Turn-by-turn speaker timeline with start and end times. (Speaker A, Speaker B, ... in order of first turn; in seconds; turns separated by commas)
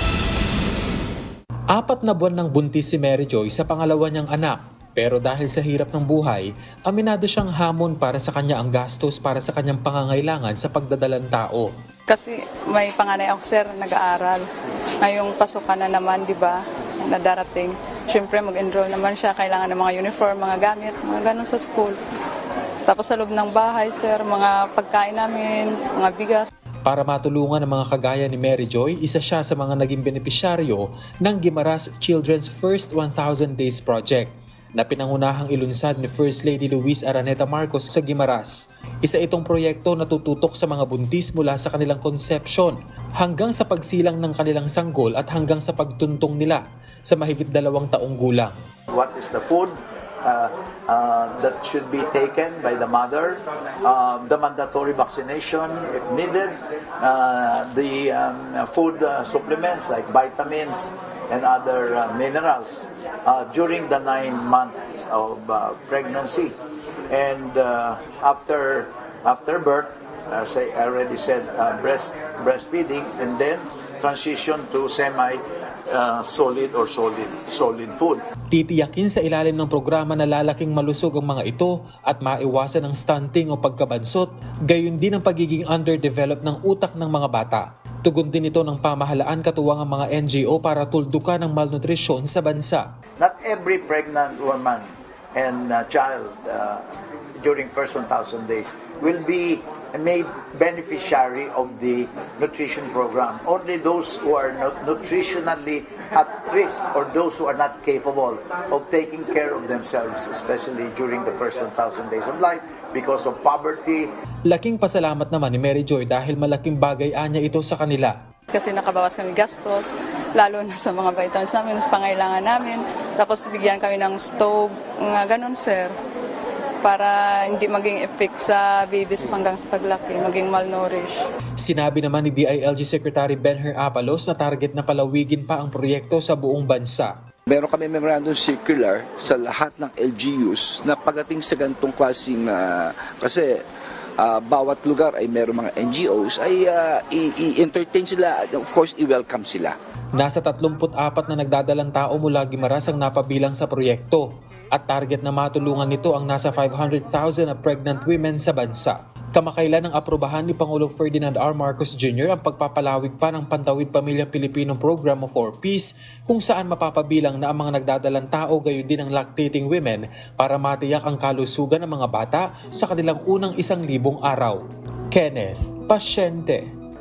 Speaker A: 1.7-11.7, Speaker B: 12.1-14.4, Speaker B: 15.0-22.0, Speaker B: 22.9-26.5, Speaker A: 26.9-48.5, Speaker C: 48.9-66.5, Speaker C: 67.1-78.2, Speaker A: 78.5-92.8, Speaker C: 93.2-96.8, Speaker C: 97.4-114.1, Speaker A: 114.5-118.2, Speaker B: 118.5-125.9, Speaker B: 126.8-131.2, Speaker A: 131.6-137.1, Speaker D: 137.5-143.6, Speaker D: 144.2-149.8, Speaker A: 150.1-176.7